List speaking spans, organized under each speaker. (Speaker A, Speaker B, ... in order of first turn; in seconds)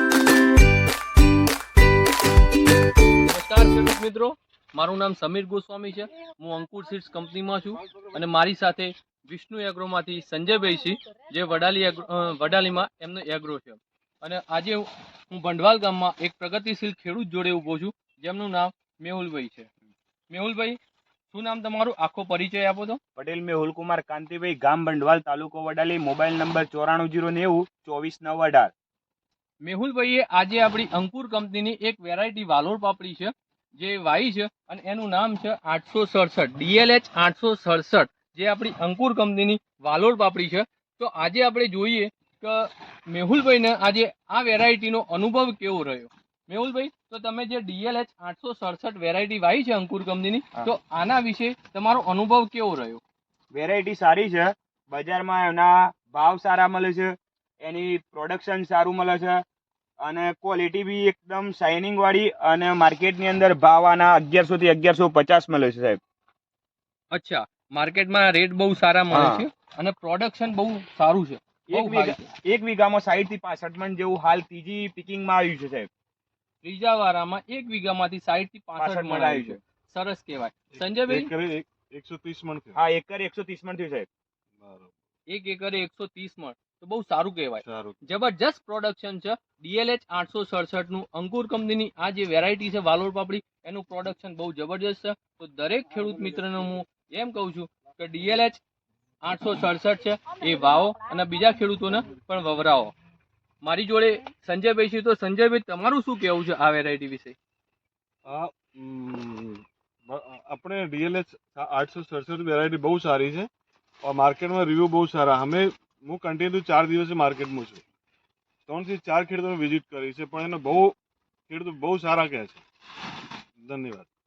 Speaker A: 3.2-19.7, 20.3-20.8, 21.3-23.0, 29.6-53.0, 67.1-72.3, 76.6-81.3, 85.3-98.6, 99.2-102.9, 103.6-107.3
Speaker B: 23.1-28.7, 53.5-59.4, 60.0-66.0, 69.1-69.4, 71.7-75.9, 78.8-79.6, 82.7-84.1
Speaker C: 80.8-82.8, 84.6-84.9, 87.6-88.0, 108.2-113.5, 114.0-117.8, 118.7-121.0, 121.5-122.6, 123.6-124.1